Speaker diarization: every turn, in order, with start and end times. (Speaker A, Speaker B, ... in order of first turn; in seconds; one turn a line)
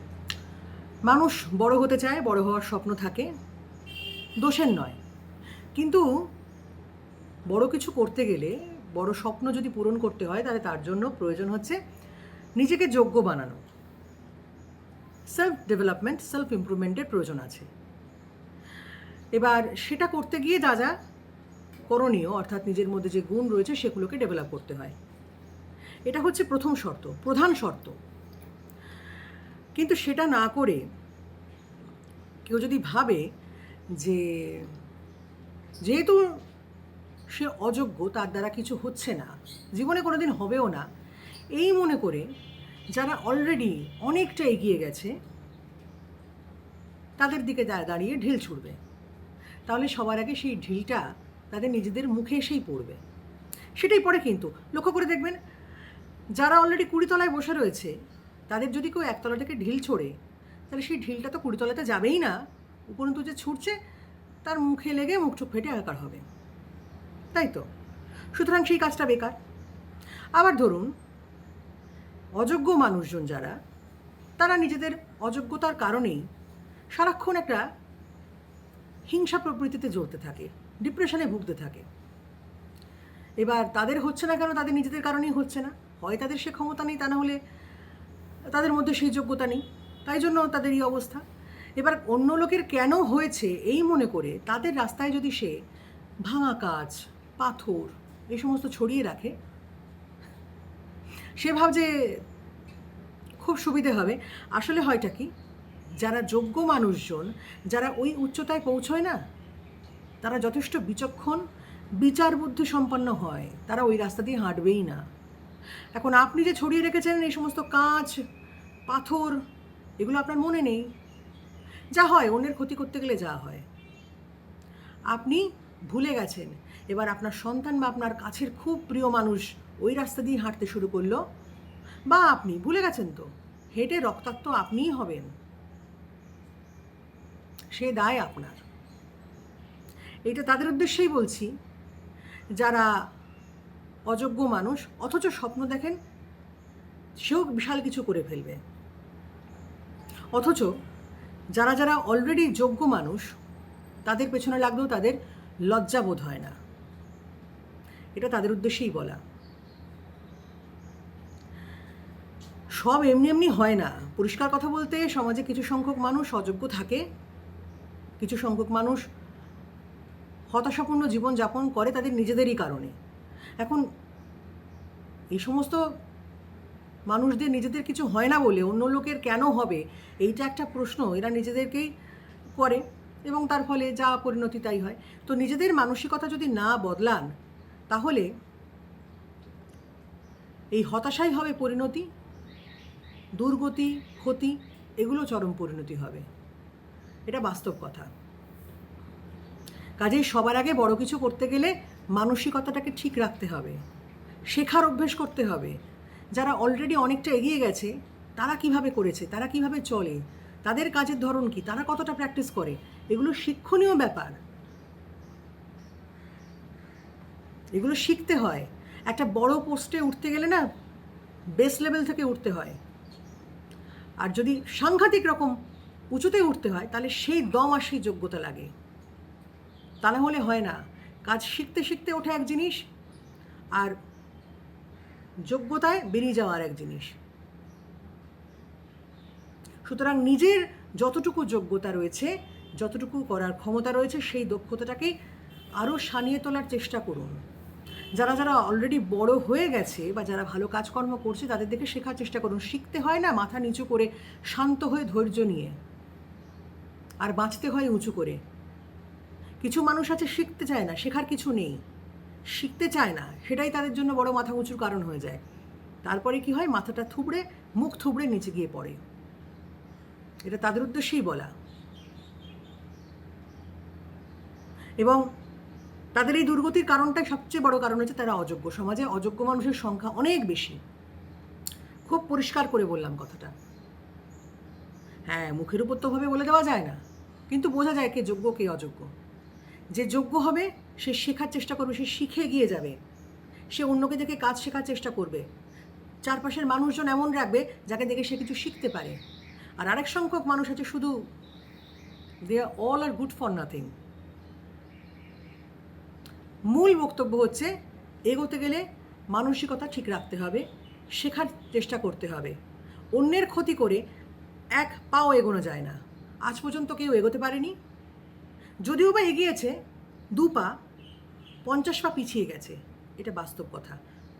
Speaker A: 1.1-3.3
Speaker A: 4.4-5.0
Speaker A: 5.8-6.1
Speaker A: 7.5-11.8
Speaker A: 12.6-13.6
Speaker A: 15.3-17.7
Speaker A: 19.4-20.9
Speaker A: 21.9-25.0
Speaker A: 26.1-28.0
Speaker A: 29.8-30.8
Speaker A: 32.5-33.2
Speaker A: 34.0-34.8
Speaker A: 35.9-36.4
Speaker A: 37.3-40.9
Speaker A: 41.6-42.3
Speaker A: 42.9-45.1
Speaker A: 47.2-48.8
Speaker A: 49.7-53.0
Speaker A: 53.8-55.4
Speaker A: 56.4-58.0
Speaker A: 58.5-60.2
Speaker A: 60.7-63.8
Speaker A: 64.4-66.2
Speaker A: 67.3-67.7
Speaker A: 68.3-69.4
Speaker A: 70.4-70.9
Speaker A: 72.4-73.6
Speaker A: 74.4-76.3
Speaker A: 76.9-77.7
Speaker A: 79.1-81.9
Speaker A: 83.4-87.4
Speaker A: 88.5-91.2
Speaker A: 91.8-95.6
Speaker A: 96.2-99.3
Speaker A: 101.4-102.2
Speaker A: 103.4-105.3
Speaker A: 106.0-109.2
Speaker A: 110.2-111.4
Speaker A: 112.0-115.0
Speaker A: 116.0-118.2
Speaker A: 118.9-119.4
Speaker A: 120.0-120.9
Speaker A: 122.0-123.7
Speaker A: 125.1-131.2
Speaker A: 132.1-135.3
Speaker A: 137.7-138.6
Speaker A: 140.3-141.5
Speaker A: 142.6-142.9
Speaker A: 144.1-146.0
Speaker A: 147.2-148.6
Speaker A: 150.3-150.7
Speaker A: 151.6-153.3
Speaker A: 154.1-156.6
Speaker A: 158.2-159.2
Speaker A: 162.8-167.1
Speaker A: 168.2-169.0
Speaker A: 170.5-172.9
Speaker A: 175.3-175.9
Speaker A: 177.1-181.9
Speaker A: 182.6-187.3
Speaker A: 187.9-188.3
Speaker A: 190.7-192.1
Speaker A: 193.4-196.3
Speaker A: 197.3-198.1
Speaker A: 200.0-203.8
Speaker A: 204.5-205.8
Speaker A: 206.4-214.4
Speaker A: 217.8-220.6
Speaker A: 221.6-222.8
Speaker A: 224.2-225.6
Speaker A: 226.1-228.7
Speaker A: 230.0-232.8
Speaker A: 235.5-237.2
Speaker A: 239.8-245.1
Speaker A: 245.8-247.4
Speaker A: 248.2-255.8
Speaker A: 257.2-258.4
Speaker A: 259.6-261.8
Speaker A: 262.5-265.4
Speaker A: 266.0-269.0
Speaker A: 270.4-271.5
Speaker A: 276.1-280.8
Speaker A: 282.1-283.5
Speaker A: 285.3-289.1
Speaker A: 289.9-293.0
Speaker A: 293.7-295.5
Speaker A: 296.3-299.2
Speaker A: 299.8-301.2
Speaker A: 302.5-303.9
Speaker A: 306.7-307.7
Speaker A: 308.3-310.6
Speaker A: 311.2-312.6
Speaker A: 313.2-314.0
Speaker A: 314.8-317.8
Speaker A: 318.9-319.8
Speaker A: 320.4-320.7
Speaker A: 321.7-324.0